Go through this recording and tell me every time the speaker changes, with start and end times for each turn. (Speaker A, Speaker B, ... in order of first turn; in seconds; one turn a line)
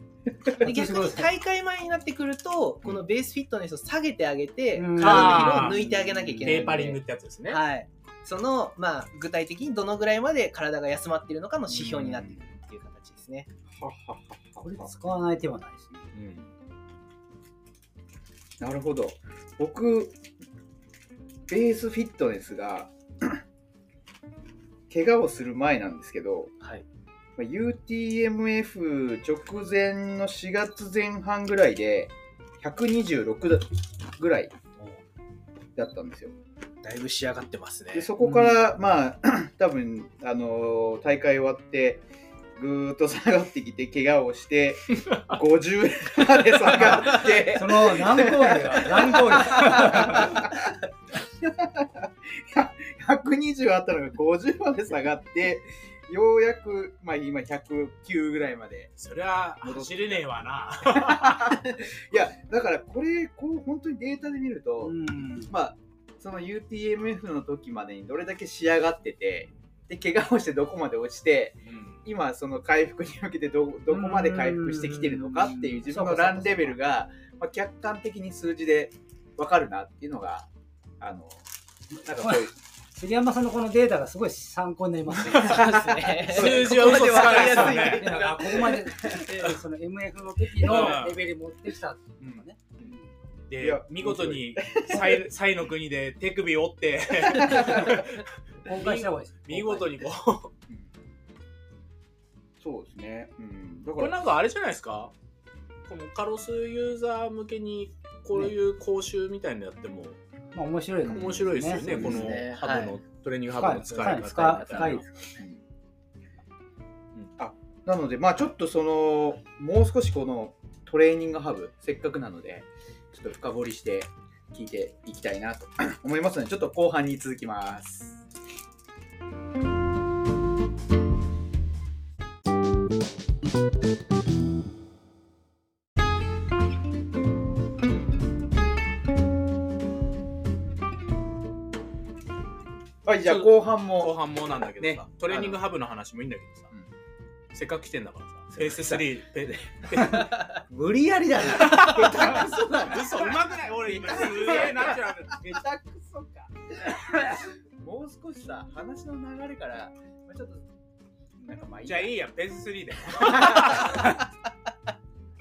Speaker A: 0.6-13.5
Speaker B: 0.6-1.3
Speaker B: 4.7-5.8
Speaker C: 5.0-7.6
Speaker B: 6.4-6.8
Speaker D: 11.7-12.4
Speaker D: 13.7-14.9
Speaker B: 14.6-16.0
Speaker C: 16.1-16.5
Speaker D: 18.6-20.2
Speaker D: 21.5-23.4
Speaker D: 24.9-26.5
Speaker D: 27.4-34.5
Speaker D: 35.8-36.3
Speaker A: 36.8-38.1
Speaker D: 37.9-42.0
Speaker B: 38.2-38.6
Speaker D: 42.5-50.7
Speaker B: 47.4-50.4
Speaker D: 51.4-58.9
Speaker C: 59.0-61.6
Speaker D: 59.6-60.2
Speaker D: 60.8-80.5
Speaker B: 64.8-65.5
Speaker C: 71.7-72.0
Speaker B: 73.9-76.8
Speaker D: 81.0-81.4
Speaker D: 82.0-82.5
Speaker B: 82.0-85.7
Speaker A: 85.3-88.3
Speaker C: 85.3-88.2
Speaker D: 85.4-89.5
Speaker B: 87.6-93.0
Speaker C: 90.6-91.2
Speaker D: 90.7-91.0
Speaker D: 92.2-92.5
Speaker C: 93.5-100.5
Speaker D: 93.6-95.3
Speaker D: 97.3-97.8
Speaker B: 98.6-99.9
Speaker D: 102.6-104.2
Speaker C: 104.0-105.1
Speaker C: 105.9-110.2
Speaker B: 110.5-112.1
Speaker D: 111.1-112.3
Speaker C: 111.1-115.0
Speaker A: 111.9-113.0
Speaker B: 113.6-115.0
Speaker A: 114.0-115.0
Speaker D: 117.4-128.2
Speaker D: 143.0-144.2
Speaker C: 143.2-146.7
Speaker D: 144.8-145.6
Speaker C: 147.5-150.5
Speaker D: 148.5-149.1
Speaker D: 150.7-160.7
Speaker C: 151.4-155.4
Speaker D: 161.4-162.1
Speaker C: 161.8-164.2
Speaker D: 163.1-164.1